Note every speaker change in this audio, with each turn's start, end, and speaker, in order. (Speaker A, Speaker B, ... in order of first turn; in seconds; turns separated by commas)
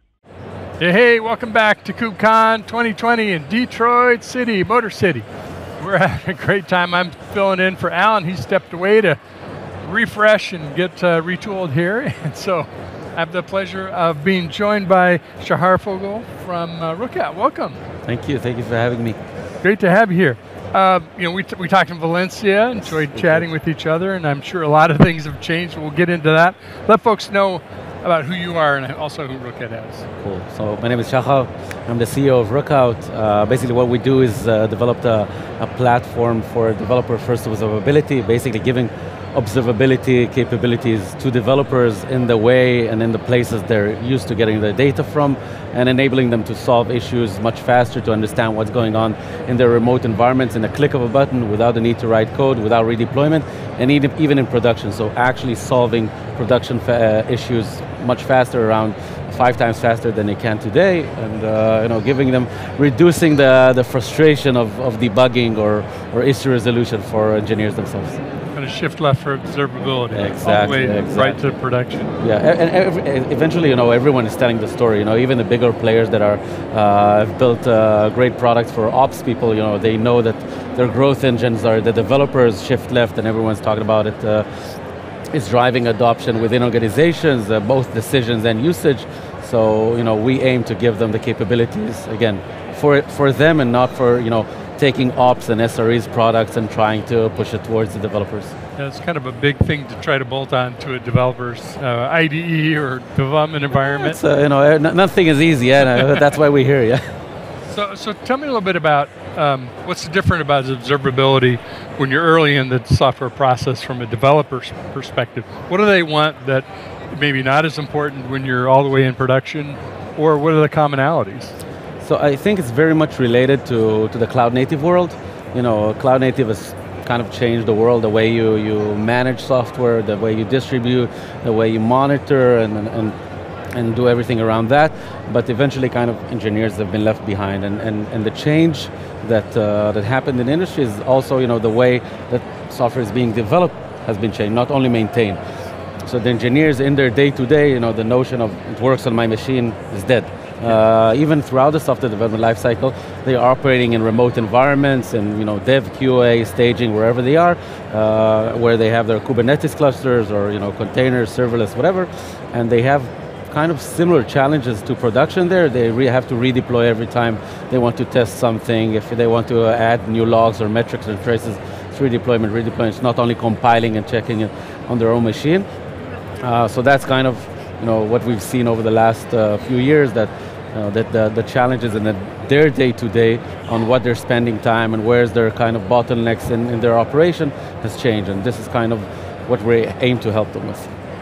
Speaker A: 0.8-5.2, Speaker A: 5.8-9.2, Speaker A: 9.8-17.8, Speaker B: 18.1-19.2, Speaker A: 19.6-30.1, Speaker B: 22.8-23.4, Speaker B: 30.2-68.2, Speaker A: 68.5-72.1, Speaker B: 70.1-71.4, Speaker B: 72.2-84.4, Speaker B: 85.3-98.5, Speaker A: 98.8-104.2, Speaker B: 103.7-107.0, Speaker A: 107.7-121.5, Speaker B: 122.0-133.1, Speaker B: 133.7-145.4, Speaker B: 146.0-175.6, Speaker B: 176.4-190.9